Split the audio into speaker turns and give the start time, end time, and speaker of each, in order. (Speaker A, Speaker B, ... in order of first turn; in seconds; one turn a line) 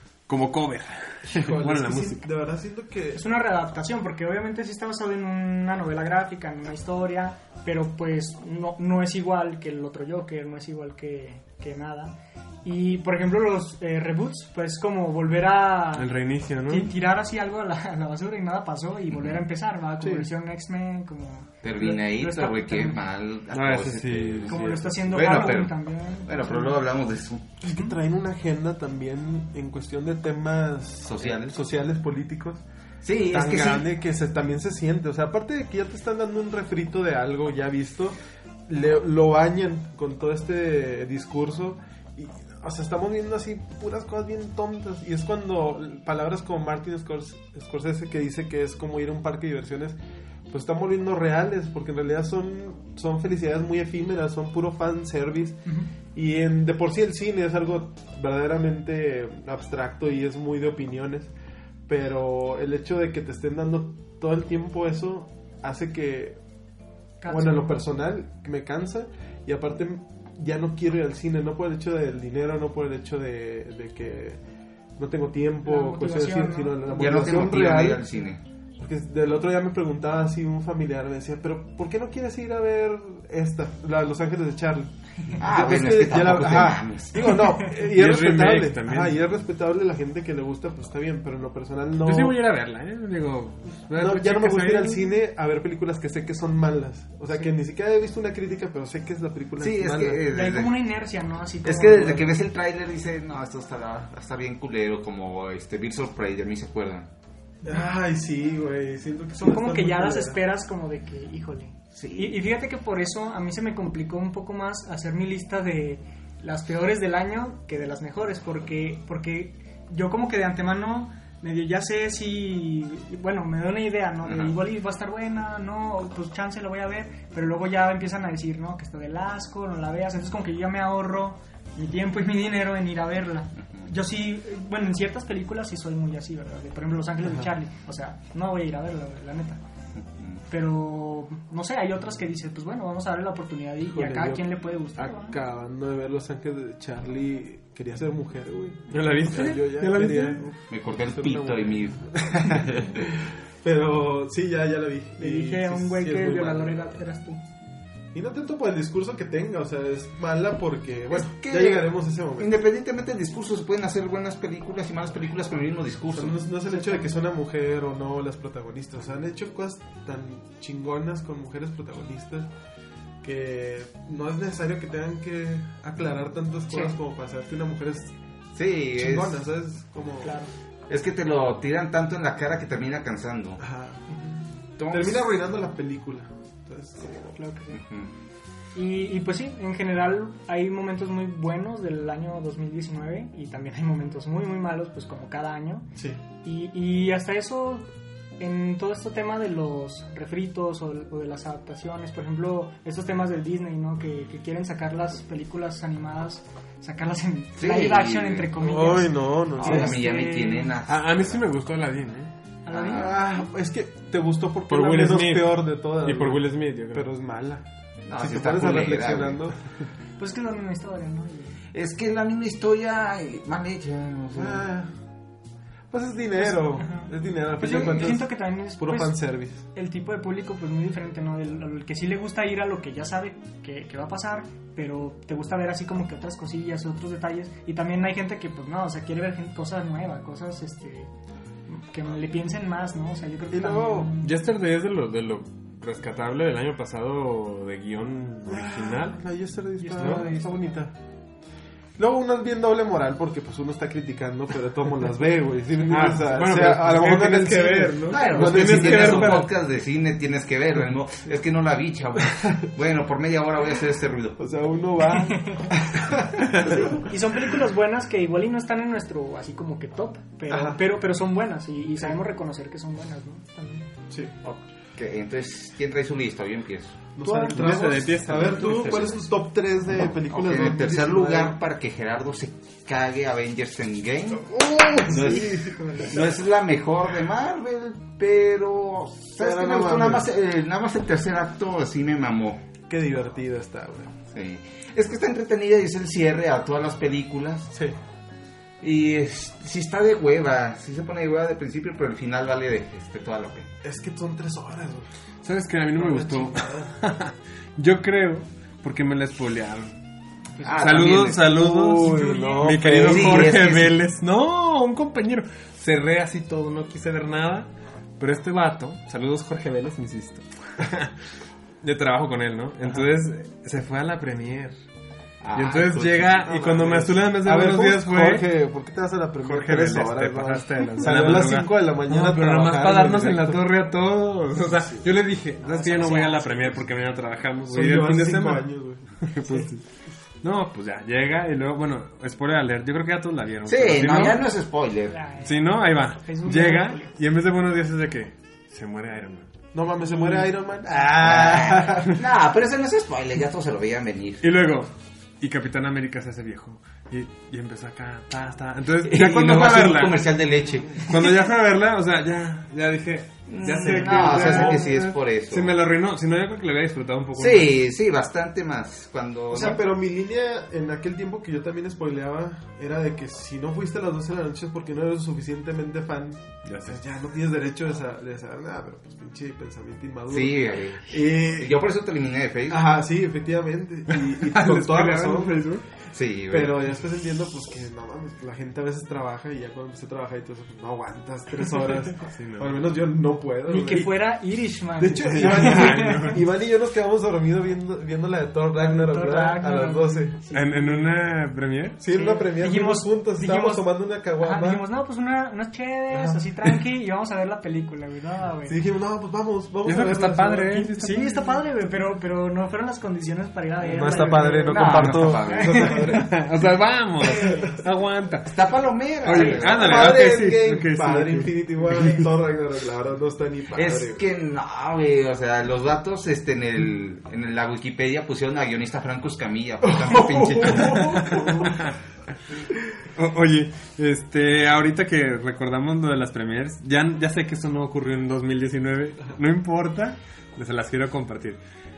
Speaker A: 0.3-2.2
Speaker B: 1.3-3.2
Speaker C: 3.1-16.1
Speaker A: 15.9-16.9
Speaker C: 16.7-23.0
Speaker D: 19.1-19.4
Speaker B: 20.0-20.3
Speaker D: 21.6-27.6
Speaker A: 23.5-25.0
Speaker C: 24.5-26.8
Speaker B: 27.6-32.6
Speaker C: 27.6-27.9
Speaker D: 31.0-31.6
Speaker D: 33.0-33.9
Speaker B: 33.3-38.1
Speaker B: 38.7-50.0
Speaker B: 50.5-61.3
Speaker B: 61.9-66.4
Speaker C: 67.2-67.8
Speaker B: 67.3-74.4
Speaker B: 75.0-78.1
Speaker C: 75.6-76.9
Speaker D: 76.9-78.4
Speaker B: 78.8-92.4
Speaker D: 85.3-87.3
Speaker A: 87.7-89.2
Speaker A: 92.0-95.1
Speaker B: 93.9-100.3
Speaker D: 99.6-100.8
Speaker C: 100.3-102.3
Speaker D: 101.6-107.1
Speaker B: 107.6-110.4
Speaker C: 109.4-139.6
Speaker D: 111.9-112.4
Speaker D: 124.2-124.6
Speaker D: 140.0-140.4
Speaker C: 140.5-145.4
Speaker B: 143.9-156.9
Speaker A: 148.9-150.5
Speaker D: 150.7-153.2
Speaker C: 155.2-157.4
Speaker B: 158.1-162.6
Speaker D: 161.1-166.4
Speaker B: 166.1-172.5
Speaker C: 166.7-167.1
Speaker B: 173.2-178.1
Speaker D: 178.5-179.4
Speaker B: 178.9-180.4
Speaker C: 180.2-180.5
Speaker D: 180.9-183.6
Speaker B: 183.6-184.0
Speaker C: 184.1-184.4
Speaker D: 184.8-185.2
Speaker B: 184.9-187.3
Speaker C: 187.3-187.8
Speaker D: 187.7-188.1
Speaker C: 188.7-195.9
Speaker B: 195.9-196.2
Speaker C: 196.4-197.9
Speaker C: 198.4-210.8
Speaker D: 207.6-208.5
Speaker B: 208.6-210.0
Speaker D: 209.6-211.4
Speaker A: 210.8-212.3
Speaker C: 212.6-213.2
Speaker D: 212.7-213.2
Speaker B: 212.9-219.6
Speaker A: 214.7-217.1
Speaker D: 218.1-219.4
Speaker C: 220.2-221.6
Speaker D: 221.7-224.6
Speaker B: 224.3-224.9
Speaker B: 225.9-229.6
Speaker C: 226.4-241.1
Speaker C: 241.7-244.3
Speaker B: 243.5-244.1
Speaker A: 244.2-249.2
Speaker B: 248.4-250.9
Speaker C: 249.8-250.6
Speaker A: 250.0-250.3
Speaker B: 252.0-259.4
Speaker A: 255.9-259.5
Speaker D: 258.1-264.4
Speaker B: 264.4-267.1
Speaker C: 265.1-265.8
Speaker C: 266.5-273.9
Speaker B: 270.5-270.8
Speaker B: 274.1-274.4
Speaker D: 274.4-277.0
Speaker B: 277.1-281.6
Speaker C: 277.2-277.7
Speaker A: 277.3-279.2
Speaker D: 280.3-292.6
Speaker B: 284.4-286.1
Speaker C: 285.6-286.2
Speaker B: 289.4-290.3
Speaker B: 292.9-294.1
Speaker D: 294.3-297.7
Speaker D: 298.8-303.7
Speaker B: 303.8-305.1
Speaker A: 305.4-309.9
Speaker B: 305.9-306.9
Speaker D: 310.6-311.6
Speaker A: 310.8-321.1
Speaker B: 311.4-313.6
Speaker C: 312.0-312.7
Speaker D: 313.0-314.0
Speaker A: 321.8-324.7
Speaker D: 325.4-326.9
Speaker A: 325.5-328.5
Speaker B: 326.4-333.6
Speaker A: 329.4-338.7
Speaker B: 334.7-335.0
Speaker C: 335.6-336.8
Speaker B: 337.7-339.6
Speaker A: 339.2-339.8
Speaker A: 340.4-344.5
Speaker D: 343.6-345.2
Speaker C: 345.1-347.1
Speaker A: 345.4-349.5
Speaker B: 349.7-352.2
Speaker C: 350.0-350.5
Speaker D: 351.0-354.4
Speaker A: 354.4-360.3
Speaker D: 359.0-361.4
Speaker A: 361.0-367.8
Speaker D: 363.5-365.8
Speaker B: 364.1-364.9
Speaker D: 367.4-369.8
Speaker B: 369.5-381.8
Speaker A: 376.6-377.0
Speaker D: 380.3-382.9
Speaker B: 382.7-385.7
Speaker A: 384.1-385.8
Speaker D: 386.1-386.8
Speaker B: 386.5-394.2
Speaker A: 392.2-392.8
Speaker C: 393.7-396.4
Speaker B: 395.0-400.4
Speaker A: 395.3-396.4
Speaker C: 398.8-401.1
Speaker A: 400.5-402.0
Speaker B: 402.0-404.8
Speaker C: 402.1-408.8
Speaker B: 406.1-406.4
Speaker B: 408.6-410.9
Speaker A: 409.8-411.6
Speaker C: 410.9-416.2
Speaker B: 413.8-416.4
Speaker D: 414.6-416.1
Speaker A: 415.9-418.6
Speaker C: 417.2-417.8
Speaker B: 417.3-417.6
Speaker D: 418.4-420.2
Speaker A: 419.2-422.2
Speaker B: 419.4-424.2
Speaker D: 423.7-431.5
Speaker B: 429.8-431.9
Speaker A: 431.3-431.9
Speaker A: 433.1-441.6